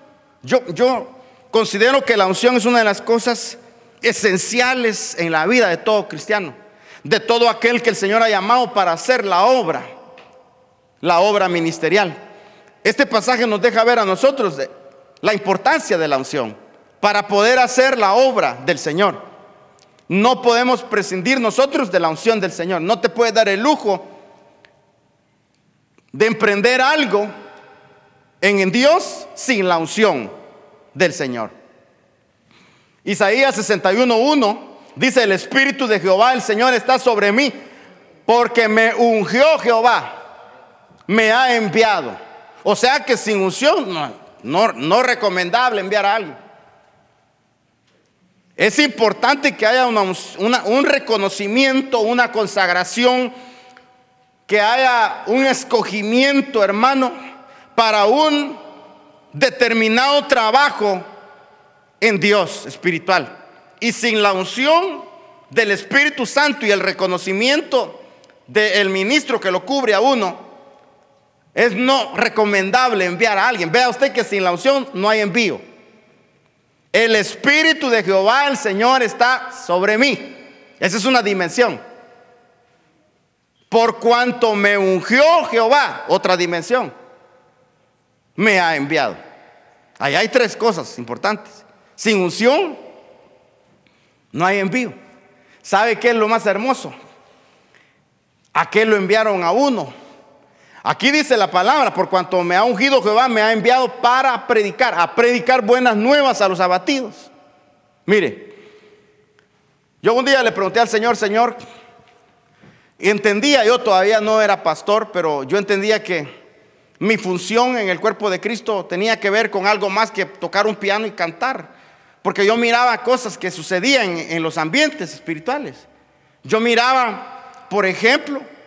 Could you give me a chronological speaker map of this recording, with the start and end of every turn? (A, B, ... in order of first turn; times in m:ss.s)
0:00.4-0:09.9 A
0:11.0-0:12.2 A
0:12.8-0:14.7 A
0:15.2-0:19.2 A
0:20.1-0:24.1 A
0:26.1-0:27.3 A
0:28.4-0:30.3 A
0:30.9-0:31.5 A
0:33.0-0:37.5 A
0:38.3-0:40.1 A
0:41.1-0:46.4 A
0:48.6-0:53.3 A
0:54.5-0:57.1 A
0:57.7-0:58.6 A
0:59.3-1:01.1 A
1:02.0-1:10.4 A
1:11.5-1:15.6 A
1:16.9-1:21.8 A
1:23.7-1:26.9 A
1:28.4-1:29.2 A
1:30.0-1:32.8 A
1:34.3-1:35.0 A
1:35.6-1:36.9 A
1:38.5-1:39.9 A
1:40.8-1:47.3 A
1:48.0-1:48.6 A
1:50.0-1:51.6 A
1:53.0-1:56.3 A
1:57.0-2:05.9 A
2:06.4-2:08.5 A